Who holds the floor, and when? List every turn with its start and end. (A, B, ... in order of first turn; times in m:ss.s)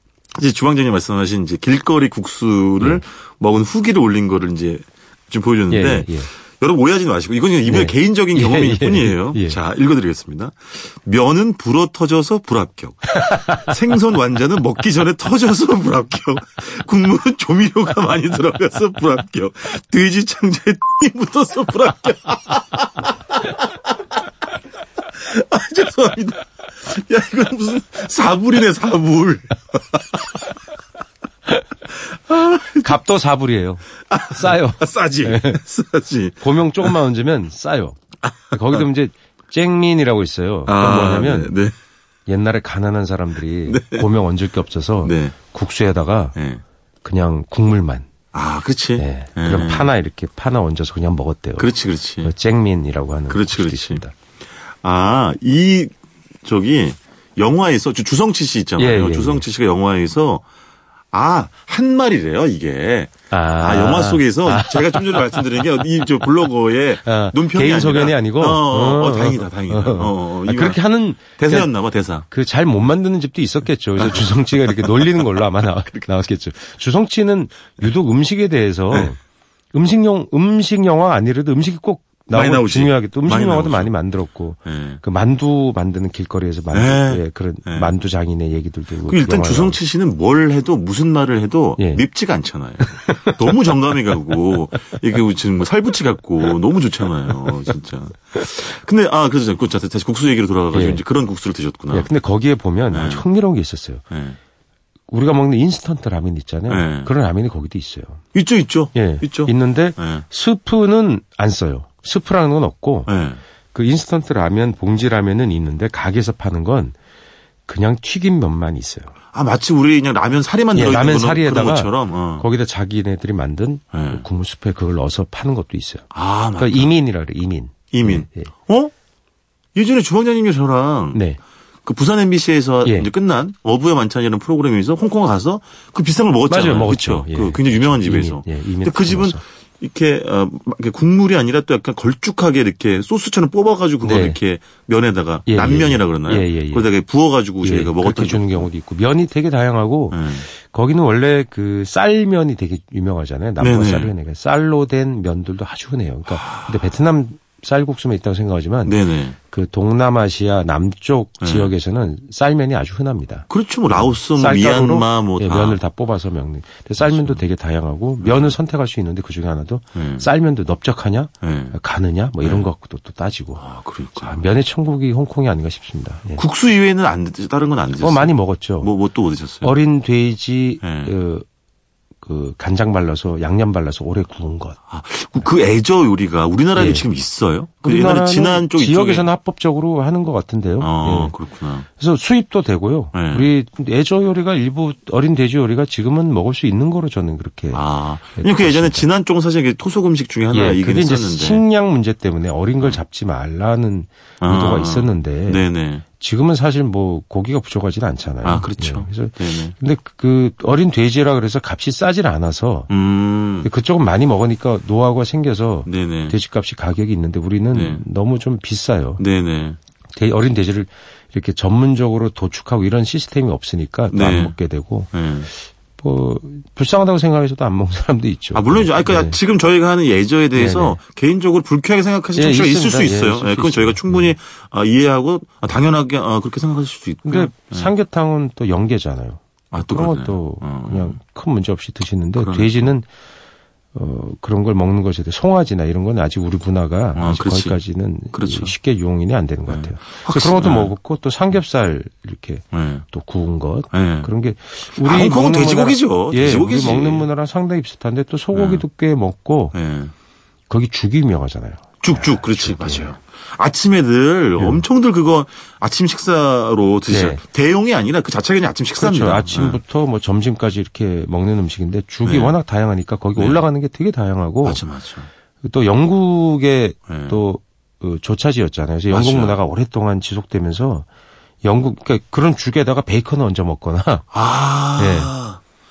0:00.3-0:23.7 A
0:05.7-0:06.3 B
0:07.6-0:09.6 B
0:13.1-0:13.7 B
0:25.2-0:30.2 A
0:32.0-0:32.9 A
0:32.8-0:35.6 B
0:34.1-0:36.9 A
0:36.4-0:38.0 B
0:38.5-0:38.8 A
0:38.5-0:41.6 B
0:40.6-0:41.7 A
0:42.3-0:46.4 B
0:43.7-0:44.0 A
0:45.0-0:45.3 A
0:46.3-0:46.6 A
0:47.0-0:48.1 B
0:48.3-0:49.9 A
0:49.0-0:51.7 B
0:51.6-0:52.3 A
0:52.2-0:54.1 B
0:53.3-0:54.0 A
0:54.8-0:55.9 A
0:56.4-1:00.4 A
0:58.8-0:59.4 B
1:01.1-1:10.8 A
1:03.3-1:06.2 B
1:07.0-1:11.7 B
1:11.4-1:12.2 A
1:12.3-1:19.2 B
1:14.0-1:15.0 A
1:19.7-1:29.8 B
1:22.3-1:23.9 A
1:24.6-1:25.0 A
1:26.7-1:27.9 A
1:29.0-1:42.1 A
1:31.8-1:32.0 B
1:32.8-1:33.5 B
1:40.7-1:41.0 B
1:41.9-1:44.0 B
1:42.9-1:43.2 A
1:44.1-1:44.4 A
1:45.1-1:48.2 B
1:46.7-1:47.1 A
1:48.3-1:50.2 A
1:48.9-1:53.1 B
1:53.1-1:53.4 A
1:53.7-1:56.9 B
1:57.7-1:59.1 B
1:59.3-2:02.4 A
2:00.7-2:08.5 B
2:03.9-2:04.2 A
2:06.1-2:06.9 A
2:07.9-2:08.9 A
2:09.7-2:11.2 A
2:11.1-2:11.4 B
2:11.8-2:28.7 A
2:12.8-2:13.1 B
2:16.5-2:19.4 B
2:24.0-2:24.4 B
2:25.5-2:26.9 B
2:27.6-2:39.0 B
2:30.1-2:30.4 A
2:33.6-2:34.1 A
2:36.3-2:36.7 A
2:38.8-2:39.4 A
2:39.5-2:53.6 B
2:41.4-2:41.7 A
2:43.5-2:45.8 A
2:47.0-2:47.4 A
2:48.2-2:48.6 A
2:49.9-2:50.2 A
2:51.4-2:51.8 A
2:53.6-2:54.4 A
2:54.2-2:56.4 B
2:56.4-2:59.7 A
2:58.0-2:58.9 B
2:59.6-3:01.4 B
3:00.8-3:01.1 A
3:02.2-3:04.8 B
3:04.9-3:09.3 A
3:06.7-3:07.1 B
3:07.8-3:11.4 B
3:10.8-3:11.8 A
3:12.0-3:17.8 B
3:13.1-3:13.5 A
3:17.7-3:21.6 A
3:18.4-3:19.0 B
3:20.5-3:25.6 B
3:24.4-3:26.0 A
3:26.2-3:32.9 B
3:28.4-3:29.7 A
3:32.9-3:33.7 A
3:33.6-3:39.2 B
3:35.8-3:36.3 A
3:37.7-3:38.0 A
3:39.2-3:39.8 A
3:40.1-3:49.4 B
3:44.1-3:44.5 A
3:45.1-3:45.5 A
3:48.5-3:57.9 A
3:50.5-3:51.0 B
3:52.4-3:54.3 B
3:57.2-4:03.1 B
3:59.7-4:01.2 A
4:02.4-4:02.9 A
4:03.9-4:19.7 B
4:07.2-4:07.8 A
4:08.3-4:08.7 A
4:09.7-4:10.9 A
4:12.7-4:13.0 A
4:13.9-4:14.3 A
4:14.9-4:17.3 A
4:18.5-4:18.8 A
4:19.7-4:20.1 A
4:20.7-4:23.1 B
4:22.0-4:29.8 A
4:24.6-4:24.8 B
4:27.1-4:27.4 B
4:29.0-4:34.8 B
4:32.2-4:32.6 A
4:33.3-4:33.6 A
4:34.6-4:35.3 A
4:35.6-4:41.0 B
4:37.1-4:37.4 A
4:39.1-4:39.6 A
4:41.6-4:44.3 B
4:44.3-4:45.6 A
4:45.0-4:45.3 B